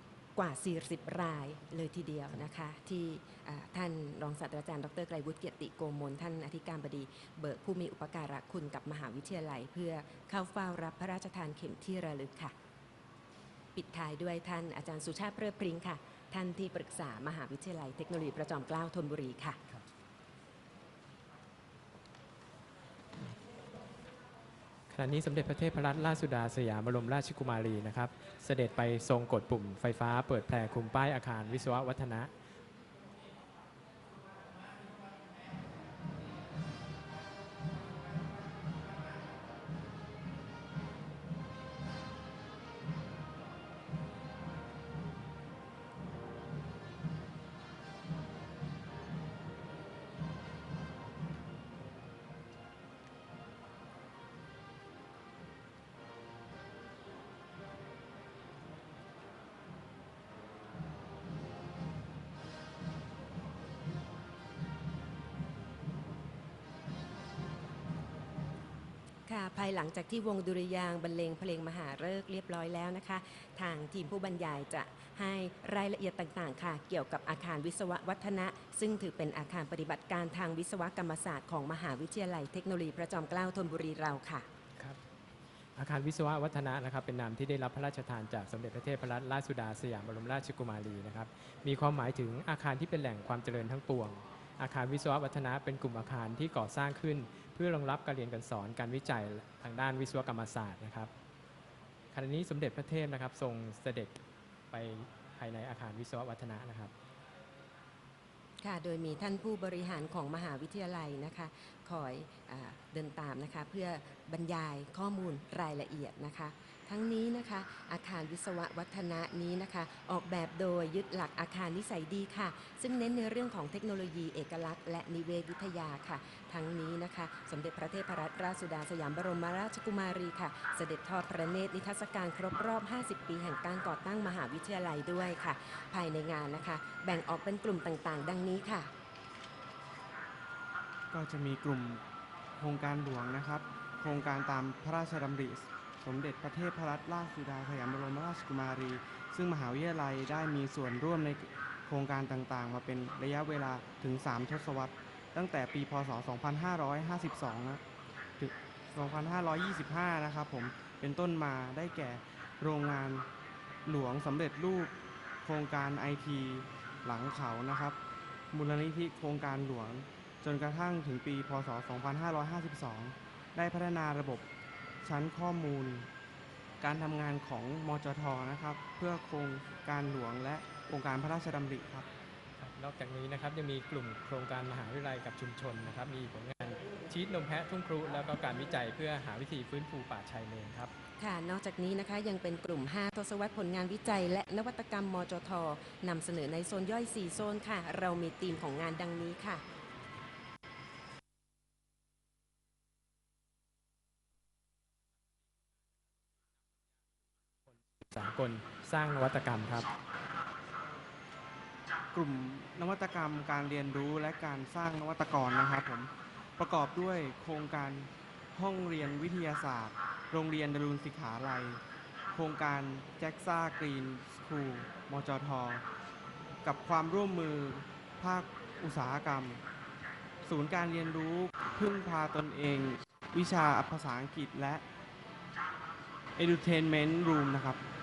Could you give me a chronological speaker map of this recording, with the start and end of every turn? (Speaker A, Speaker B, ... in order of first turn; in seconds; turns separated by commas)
Speaker A: 0.4-12.5, Speaker A: 13.8-19.6, Speaker B: 24.9-32.3, Speaker A: 69.3-84.5, Speaker B: 85.8-101.1, Speaker B: 102.1-104.2, Speaker B: 104.7-106.9, Speaker A: 108.6-138.9, Speaker C: 141.1-142.0, Speaker C: 142.6-157.8, Speaker C: 158.4-163.3, Speaker C: 163.9-164.9, Speaker C: 165.4-168.0, Speaker C: 168.5-174.5, Speaker C: 175.0-176.1, Speaker C: 176.8-182.1, Speaker B: 182.6-190.9, Speaker A: 191.2-199.6, Speaker B: 208.1-209.9, Speaker C: 212.1-221.8, Speaker C: 222.3-225.8, Speaker C: 226.6-229.6, Speaker C: 230.4-234.8, Speaker C: 236.4-237.8